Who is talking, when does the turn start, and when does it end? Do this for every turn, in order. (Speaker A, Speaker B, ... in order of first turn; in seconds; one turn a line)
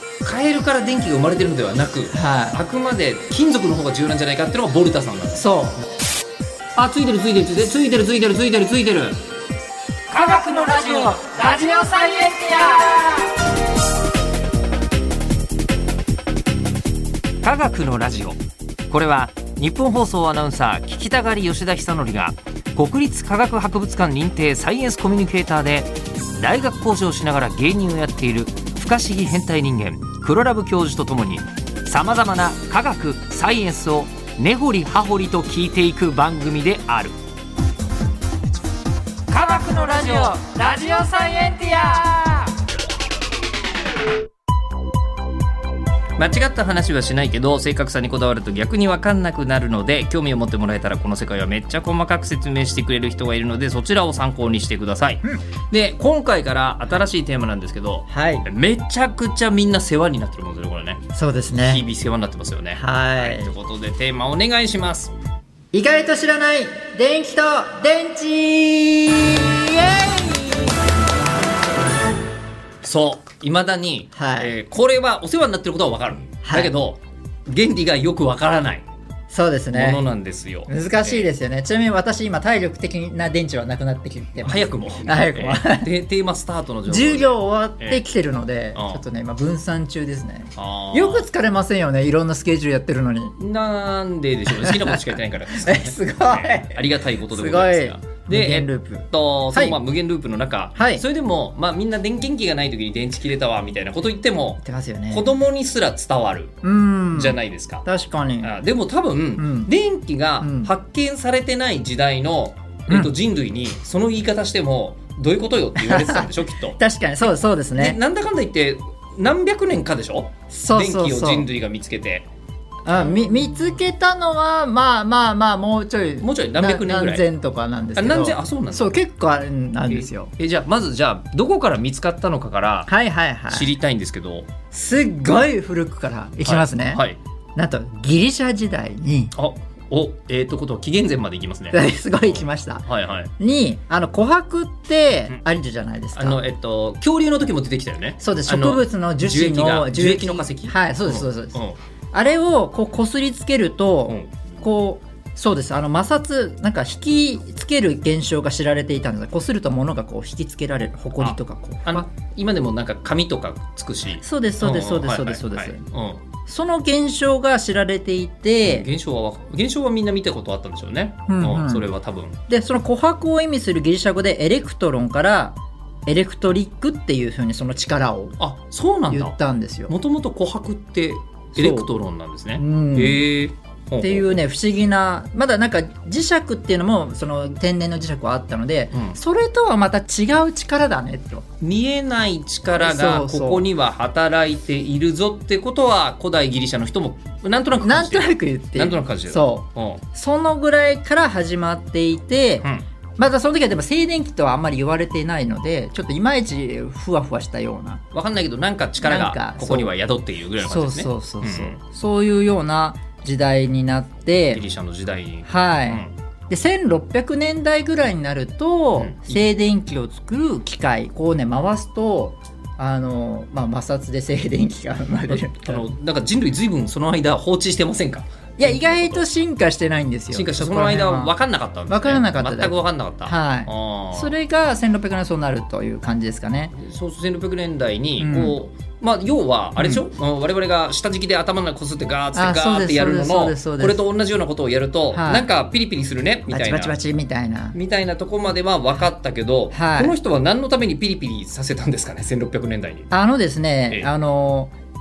Speaker A: 0.2-5.4
Speaker B: 2.1-2.6
Speaker B: 5.3-5.8
Speaker A: 6.8-9.2
Speaker B: 10.1-13.3
Speaker A: 17.4-18.4
Speaker A: 18.9-37.1
Speaker B: 39.3-42.5
Speaker A: 46.2-61.0
Speaker B: 58.1-58.4
Speaker B: 61.1-61.9
Speaker A: 61.6-65.1
Speaker B: 62.8-63.5
Speaker B: 65.7-70.7
Speaker A: 72.8-78.8
Speaker B: 74.1-74.5
Speaker B: 76.4-76.7
Speaker B: 79.3-80.0
Speaker A: 79.7-81.3
Speaker B: 80.7-85.9
Speaker A: 84.4-88.0
Speaker B: 86.9-93.3
Speaker A: 88.7-89.0
Speaker A: 90.5-91.3
Speaker A: 93.4-106.5
Speaker B: 94.5-99.8
Speaker B: 100.7-101.0
Speaker B: 104.6-105.2
Speaker B: 106.6-108.5
Speaker A: 107.1-107.8
Speaker A: 108.4-122.3
Speaker B: 109.4-109.7
Speaker B: 110.4-110.7
Speaker B: 115.8-118.0
Speaker B: 120.5-121.5
Speaker B: 122.8-130.3
Speaker A: 126.2-127.2
Speaker A: 128.0-129.0
Speaker A: 129.9-132.9
Speaker B: 132.9-133.7
Speaker A: 133.5-134.5
Speaker B: 134.7-137.0
Speaker A: 136.4-137.2
Speaker B: 137.6-139.3
Speaker A: 139.3-143.3
Speaker B: 141.7-142.9
Speaker B: 143.4-146.4
Speaker A: 146.2-151.8
Speaker B: 148.2-151.6
Speaker B: 152.1-162.1
Speaker A: 161.2-166.2
Speaker B: 164.2-165.8
Speaker B: 166.4-168.8
Speaker A: 168.6-172.3
Speaker B: 171.3-171.9
Speaker B: 172.5-178.4
Speaker A: 178.4-179.3
Speaker B: 179.1-179.9
Speaker A: 179.9-184.4
Speaker B: 181.5-181.9
Speaker B: 182.6-183.2
Speaker B: 184.0-191.4
Speaker A: 188.9-189.2
Speaker A: 191.6-200.0
Speaker B: 192.7-193.6
Speaker B: 197.8-208.0
Speaker A: 208.1-211.8
Speaker B: 209.0-209.9
Speaker B: 210.6-214.6
Speaker A: 214.5-216.1
Speaker B: 215.4-225.9
Speaker A: 219.0-219.4
Speaker A: 225.3-229.2
Speaker B: 228.6-231.3
Speaker A: 230.3-234.3
Speaker B: 231.9-236.8
Speaker A: 236.7-246.9
Speaker B: 238.2-238.6
Speaker B: 242.3-244.0
Speaker B: 245.1-245.5
Speaker B: 246.5-247.8
Speaker A: 247.7-253.1
Speaker B: 249.7-250.1
Speaker B: 253.1-254.7